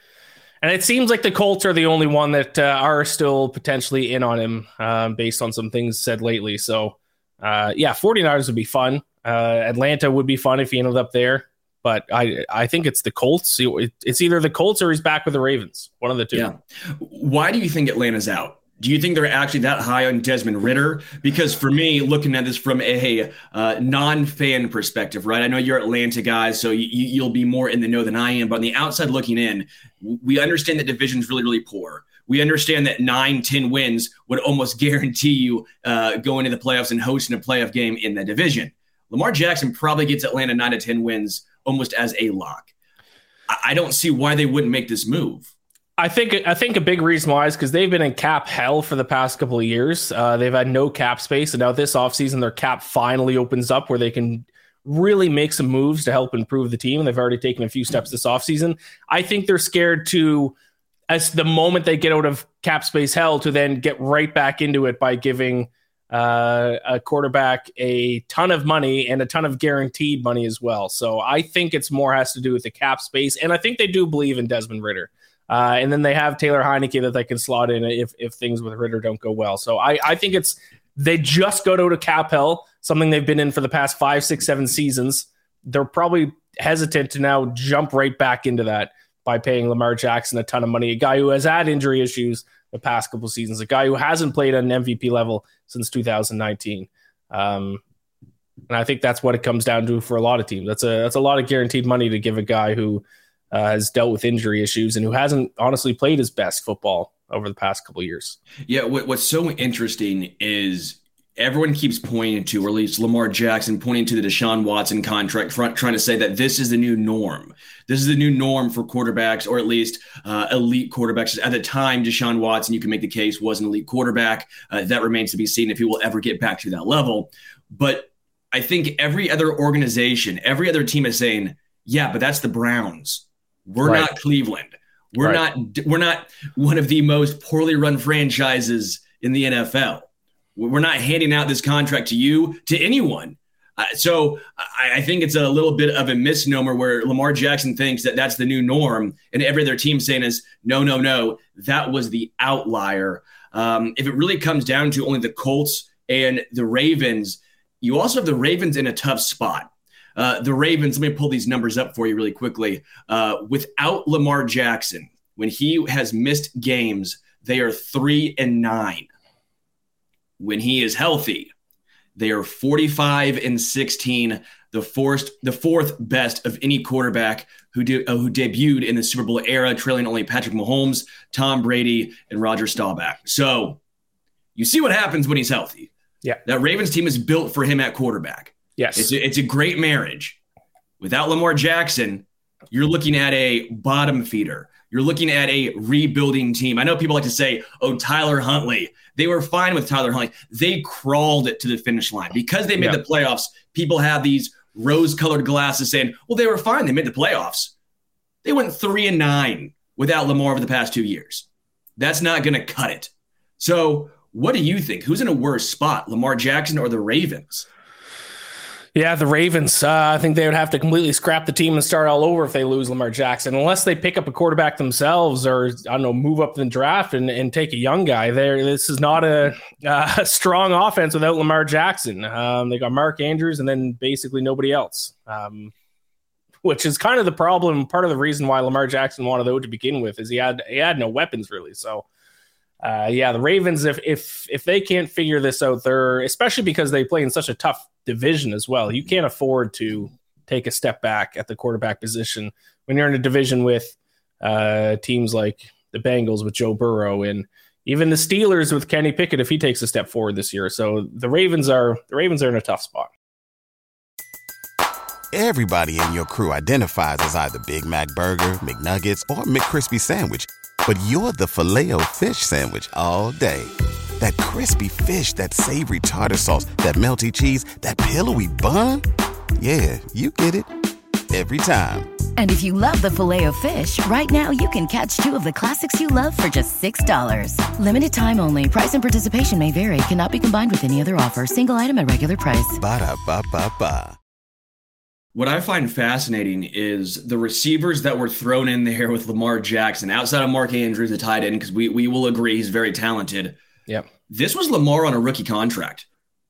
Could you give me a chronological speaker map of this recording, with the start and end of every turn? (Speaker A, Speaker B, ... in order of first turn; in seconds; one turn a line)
Speaker A: 0.6-16.5
Speaker B: 16.3-42.7
Speaker B: 43.5-45.5
Speaker A: 46.0-60.5
Speaker A: 61.1-97.8
Speaker A: 98.7-108.4
Speaker B: 108.7-169.1
Speaker A: 133.8-134.1
Speaker B: 170.4-171.5
Speaker B: 172.2-183.8
Speaker B: 184.6-185.9
Speaker B: 186.4-190.4
Speaker A: 188.8-189.1
Speaker B: 191.0-207.7
Speaker B: 208.4-211.5
Speaker B: 212.0-217.7
Speaker A: 218.9-235.7
Speaker A: 236.6-242.1
Speaker A: 242.8-263.1
Speaker C: 265.3-279.1
Speaker C: 279.6-280.7
Speaker C: 281.3-282.2
Speaker D: 282.4-292.8
Speaker C: 292.8-294.2
Speaker B: 295.4-303.6
Speaker B: 304.3-306.1